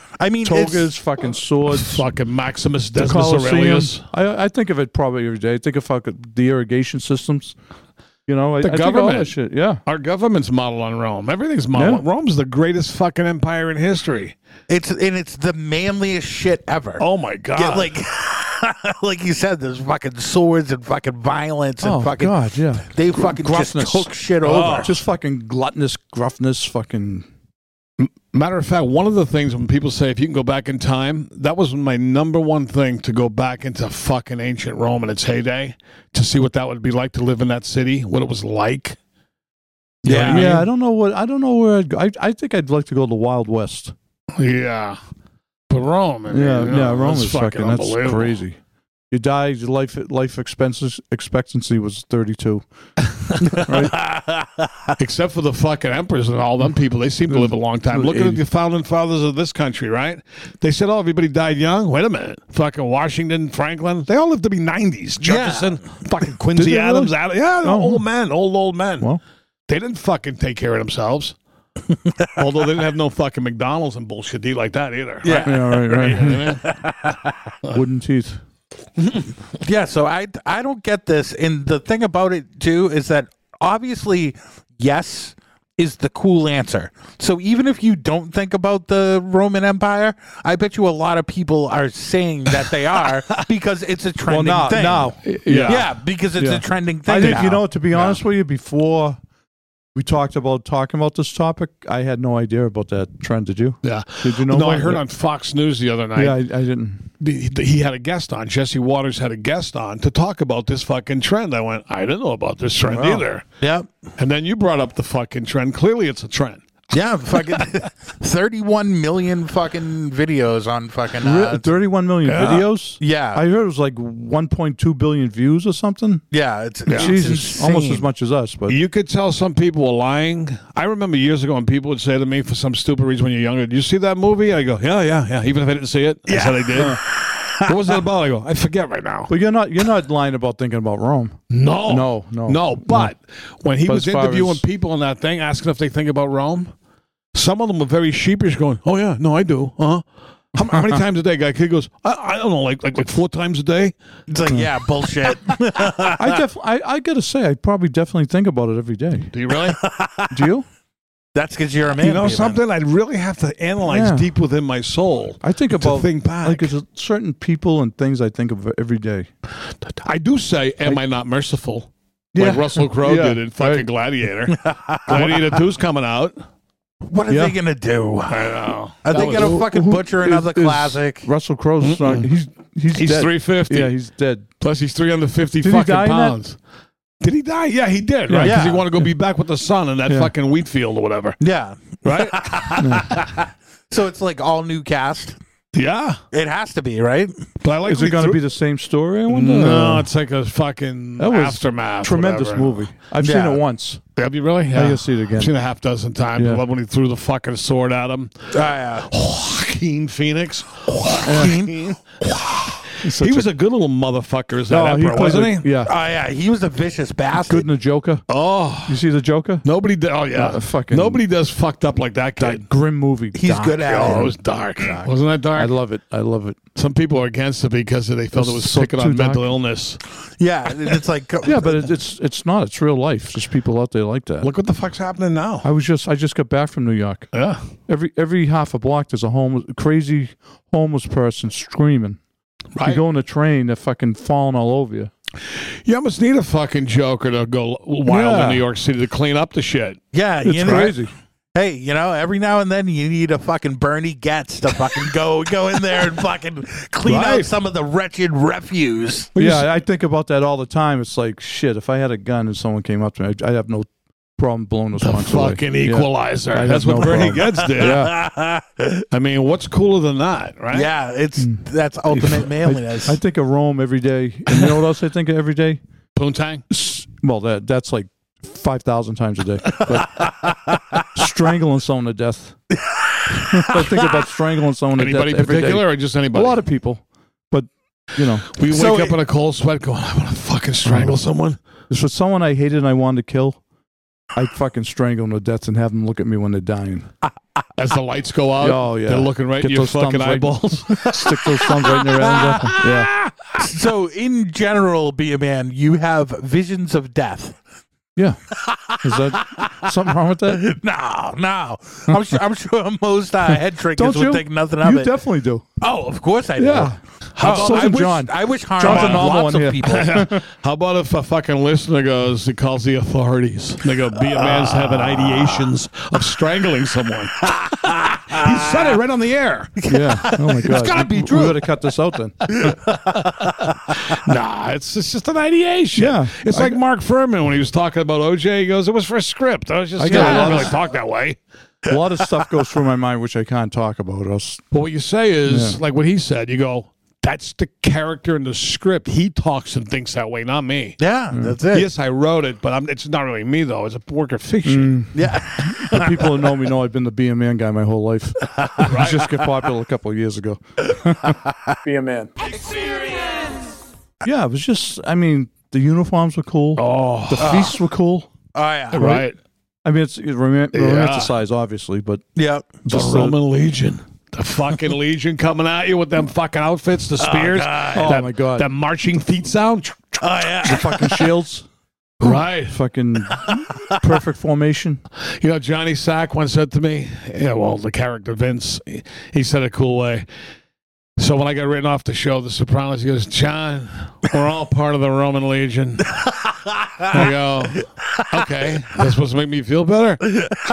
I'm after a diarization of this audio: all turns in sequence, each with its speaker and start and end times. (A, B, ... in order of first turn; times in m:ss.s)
0:00.2-0:00.9 A
0:00.4-0:02.0 B
0:01.7-0:04.0 C
0:03.0-0:07.6 B
0:08.3-0:09.8 B
0:08.6-0:14.4 C
0:11.7-0:12.0 B
0:14.7-0:24.9 A
0:17.0-0:17.9 C
0:21.8-0:24.1 B
0:24.4-0:24.9 C
0:24.8-0:27.3 B
0:28.0-0:39.0 C
0:40.0-0:40.6 A
0:40.0-0:40.7 C
0:40.1-0:43.9 B
0:44.3-0:45.0 C
0:45.7-0:48.4 C
0:46.3-0:48.6 B
0:49.1-0:52.6 B
0:53.5-0:54.0 B
0:54.0-0:54.3 A
0:55.0-1:09.1 C
0:57.3-0:58.4 B
1:05.2-1:05.8 A
1:06.6-1:08.0 B
1:09.7-1:11.4 C
1:12.4-1:16.8 C
1:15.2-1:17.2 A
1:15.4-1:16.6 B
1:17.7-1:18.4 B
1:19.6-1:37.6 A
1:34.3-1:35.8 B
1:35.3-1:35.9 C
1:36.4-1:39.2 B
1:37.2-1:38.2 C
1:39.9-1:45.0 B
1:43.8-1:46.4 C
1:46.2-1:47.1 B
1:47.2-1:53.4 C
1:52.8-1:53.2 B
1:53.6-1:53.9 A
1:54.2-1:56.6 C
1:56.9-2:01.7 A
2:01.2-2:06.2 B
2:02.2-2:02.7 C
2:03.0-2:03.4 A
2:06.3-2:08.1 A
2:06.9-2:07.2 C
2:06.9-2:08.8 B
2:08.7-2:17.0 C
2:16.3-2:17.7 A
2:17.6-2:19.3 C
2:19.3-2:23.1 B
2:21.5-2:26.7 C
2:23.8-2:24.6 B
2:27.3-2:33.9 C
2:30.7-2:31.0 B
2:34.3-2:36.4 A
2:36.2-2:39.3 B
2:39.3-2:39.8 C
2:39.7-2:40.3 A
2:40.3-2:40.7 B
2:41.3-2:42.6 A
2:42.0-2:46.7 C
2:43.8-2:44.3 B
2:45.4-2:49.3 B
2:49.9-2:56.4 C
2:52.3-2:53.9 B
2:54.5-2:55.4 A
2:57.1-3:01.3 A
2:57.3-2:57.6 B
2:58.3-2:59.6 C
2:59.1-3:04.5 B
3:01.8-3:02.3 C
3:02.9-3:04.0 C
3:04.6-3:06.6 C
3:05.6-3:06.4 B
3:07.2-3:11.4 C
3:08.3-3:08.7 B
3:08.4-3:08.8 A
3:11.4-3:15.4 A
3:12.0-3:13.0 C
3:12.8-3:13.1 B
3:15.7-3:16.2 C
3:16.3-3:17.3 A
3:17.6-3:18.4 C
3:17.9-3:20.1 B
3:19.3-3:22.9 C
3:21.2-3:24.0 B
3:23.2-3:23.6 A
3:24.2-3:32.0 C
3:24.7-3:25.5 B
3:26.4-3:26.6 B
3:28.5-3:29.1 A
3:31.0-3:32.8 A
3:31.2-3:31.5 B
3:33.0-3:33.5 B
3:33.0-3:35.7 C
3:34.7-3:35.9 B
3:35.8-3:37.7 A
3:37.5-3:38.2 B
3:38.3-3:39.0 C
3:38.8-3:39.7 B
3:39.6-3:42.6 C
3:40.3-3:41.2 B
3:42.4-3:44.3 B
3:43.3-3:44.3 A
3:43.8-3:45.7 C
3:45.6-3:46.6 B
3:46.8-3:50.0 C
3:48.3-3:49.5 B
3:50.4-3:51.8 A
3:51.4-3:54.5 B
3:54.4-3:55.7 C
3:55.6-3:57.3 B
3:57.3-3:57.6 C
3:57.9-4:02.2 B
4:02.8-4:03.0 C
4:02.8-4:05.1 B
4:05.5-4:10.0 C
4:08.1-4:08.6 B
4:10.1-4:11.0 A
4:10.4-4:11.1 B
4:10.6-4:10.9 C
4:11.6-4:19.3 A
4:17.1-4:17.5 C
4:19.3-4:19.7 C
4:19.4-4:28.2 B
4:25.0-4:28.1 C
4:27.8-4:29.0 A
4:29.1-4:30.9 C
4:30.7-4:33.2 A
4:31.4-4:35.8 B
4:36.2-4:36.6 C
4:36.7-4:40.3 B
4:41.1-4:42.6 B
4:43.3-4:48.5 B
4:45.0-4:46.6 C
4:48.5-4:51.6 C
4:48.7-4:49.2 A
4:50.8-4:51.2 B
4:51.9-4:53.6 B
4:54.3-4:57.1 B
4:57.8-5:01.1 C
4:58.6-5:03.1 B
5:03.6-5:07.6 A
5:08.6-5:09.8 A
5:09.0-5:10.7 B
5:10.5-5:15.2 A
5:14.0-5:15.6 B
5:15.8-5:20.2 A
5:16.6-5:20.4 B
5:17.3-5:18.1 C
5:18.8-5:27.5 C
5:24.4-5:25.5 A
5:27.7-5:29.0 A
5:28.3-5:29.8 C
5:29.8-5:31.7 A
5:29.9-5:32.7 B
5:32.5-5:34.0 A
5:34.1-5:41.4 C
5:35.9-5:36.8 B
5:40.0-5:40.8 B
5:40.1-5:40.6 A
5:41.9-5:44.6 B
5:44.7-5:51.0 C
5:45.5-5:45.8 B
5:51.0-5:51.9 A
5:51.7-5:54.9 C
5:54.7-6:02.3 B
5:55.1-5:56.2 A
5:58.8-5:59.3 C
6:04.2-6:08.3 B
6:06.8-6:07.7 C
6:07.4-6:07.8 A
6:08.6-6:09.2 A
6:08.9-6:09.4 C
6:09.0-6:09.2 B
6:09.8-6:12.2 B
6:10.7-6:11.3 C
6:12.4-6:12.8 A
6:12.8-6:13.4 B
6:12.9-6:20.2 C
6:17.2-6:18.1 A
6:17.9-6:18.7 B
6:20.2-6:21.3 A
6:20.6-6:21.7 B
6:22.2-6:22.8 C
6:22.2-6:25.0 B
6:25.2-6:30.3 C
6:31.2-6:36.1 C
6:37.1-6:40.3 C